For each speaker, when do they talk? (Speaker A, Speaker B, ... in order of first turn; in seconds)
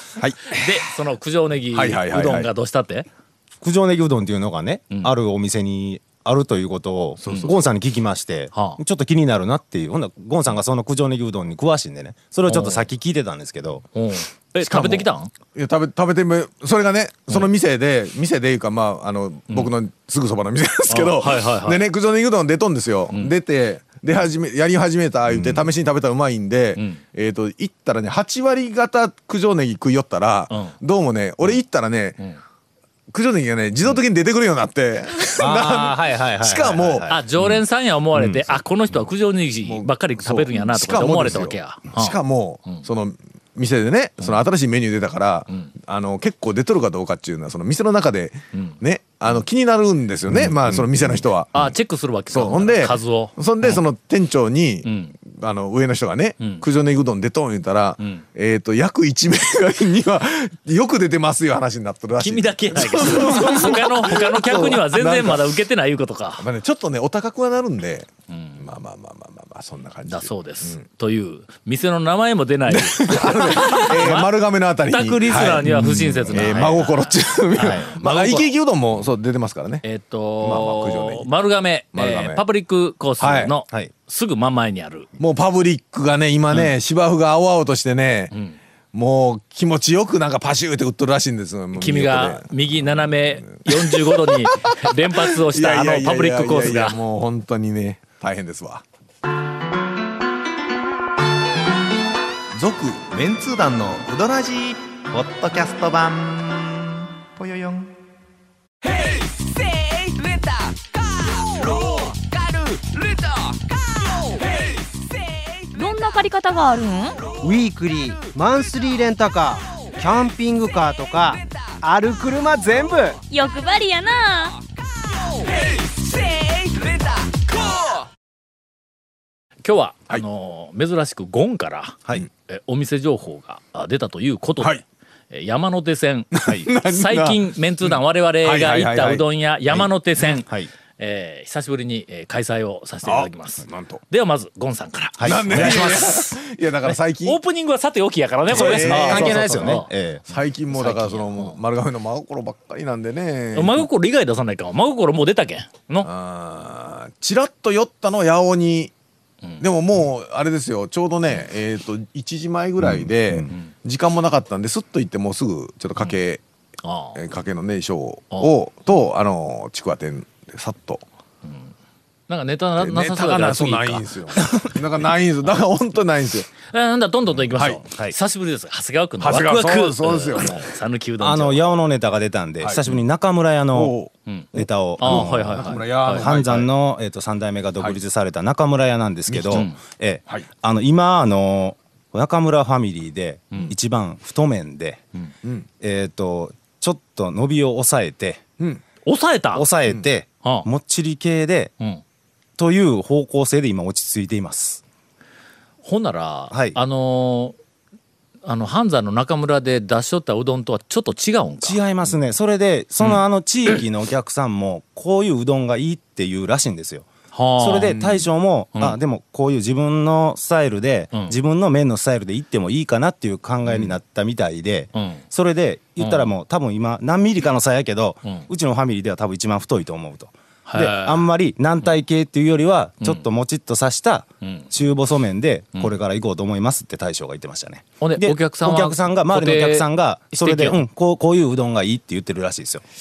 Speaker A: 0.2-0.7, 1.7-2.5, 7.2-7.5, 14.6-32.2, 33.1-37.1, 39.6-51.6, 52.3-65.6, 66.4-68.1, 68.6-70.8, 72.7-75.7, 76.3-79.8, 80.4-81.3, 81.9-82.4, 83.2-83.5, 85.2-88.3, 88.9-94.8, 95.5-98.8, 102.6-104.8, 136.3-139.9, 143.0-144.0, 145.2-147.4, 148.5-149.7, 150.3-153.9, 156.0-158.9, 159.6-166.4, 167.2-171.0, 172.8-176.5, 177.6-177.8, 179.2-180.7, 182.6-183.0, 183.7-186.7, 189.3-189.7
Speaker B: 0.5-3.1, 8.5-8.8, 12.5-12.9, 13.9-15.3, 20.9-21.8, 26.8-27.0, 30.5-30.8, 37.1-42.2, 48.5-48.8, 51.5-53.8, 54.8-55.2, 56.4-56.6, 62.2-66.5, 68.3-68.7, 70.1-74.3, 74.9-78.5, 79.8-85.1, 88.3-88.6, 91.7-97.0, 129.6-132.0, 132.5-136.3, 136.8-149.9, 150.7-151.6, 153.5-156.1, 166.8-167.2, 172.3-174.1, 176.7-181.7, 184.3-186.3, 189.5-189.8, 199.1-199.7, 205.8-207.6, 208.4-211.8, 213.0-213.8, 217.3-218.2, 223.7-223.9, 224.9-225.2, 226.0-226.3, 230.7-231.3, 234.4-234.7, 238.0-240.8
Speaker C: 3.6-13.8, 25.3-25.6, 35.4-37.6, 38.1-38.6, 75.7-76.8, 77.6-77.9, 140.4-140.7, 145.2-146.0, 148.5-150.2, 162.8-163.5, 177.6-178.2, 181.2-183.9, 184.5-195.0, 195.8-198.4, 199.5-201.7, 202.6-204.8, 206.5-206.8, 211.6-217.1, 217.6-242.8
Speaker D: 102.8-103.8, 105.1-106.8, 107.4-107.8
Speaker E: 115.7-117.2, 123.3-124.6
Speaker F: 117.4-123.2